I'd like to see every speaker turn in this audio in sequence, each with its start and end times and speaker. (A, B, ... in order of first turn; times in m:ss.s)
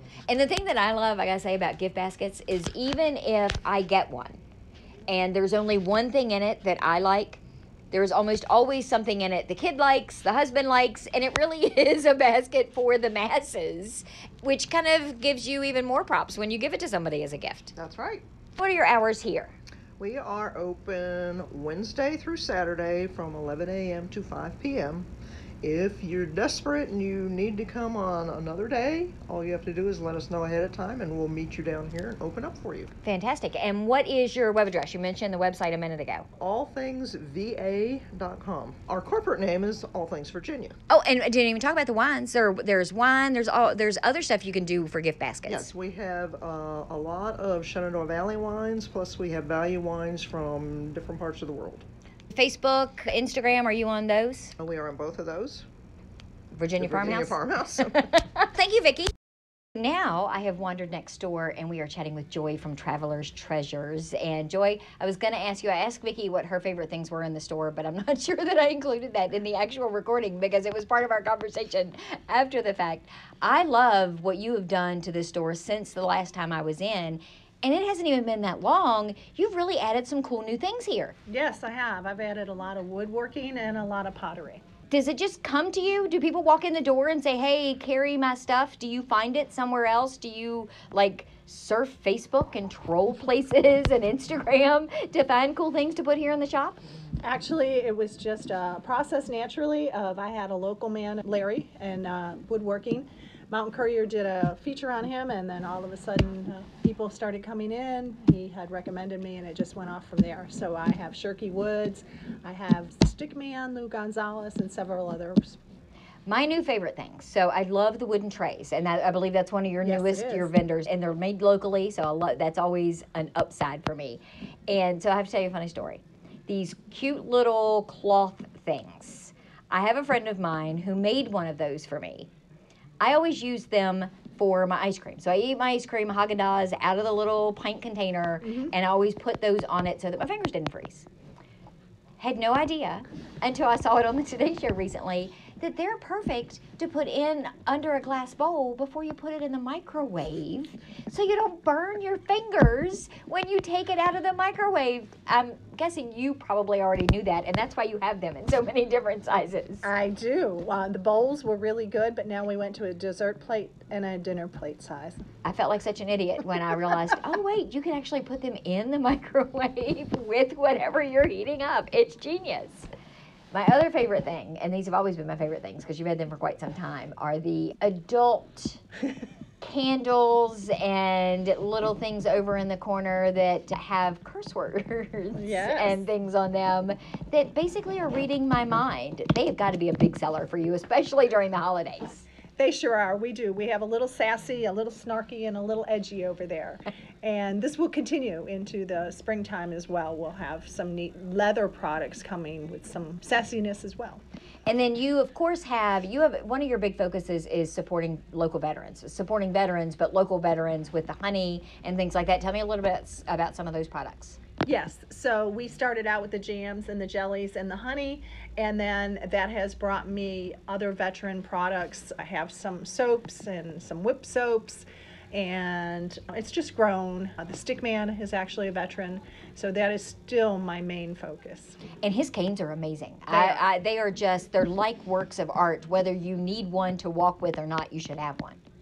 0:00.3-0:04.4 A
0:05.1-0:17.7 A
0:17.8-0:18.2 B
0:18.6-0:19.5 A
0:20.0-0:25.1 B
0:25.6-0:32.9 B
0:33.0-0:36.3 A
0:36.4-0:40.8 B
0:40.9-0:45.7 A
0:45.5-0:51.9 B
0:52.3-0:54.5 A
0:54.6-0:55.7 B
0:56.5-0:57.4 A
0:56.8-0:58.1 B
0:58.0-0:59.1 A
0:59.8-1:21.2 A
1:21.3-1:24.6 C
1:24.9-1:36.8 A
1:37.2-1:55.6 C
1:56.3-2:12.3 A
1:59.8-2:00.5 C
2:13.0-2:21.1 A
2:22.2-2:39.9 A
2:39.8-2:45.2 C
2:45.4-2:52.9 A
2:53.5-2:58.8 A
2:59.6-3:12.2 A
3:05.4-3:05.9 C
3:12.6-3:24.2 C
3:24.7-3:34.4 A
3:34.6-3:51.8 C
3:52.0-3:58.6 A
3:53.3-3:53.6 C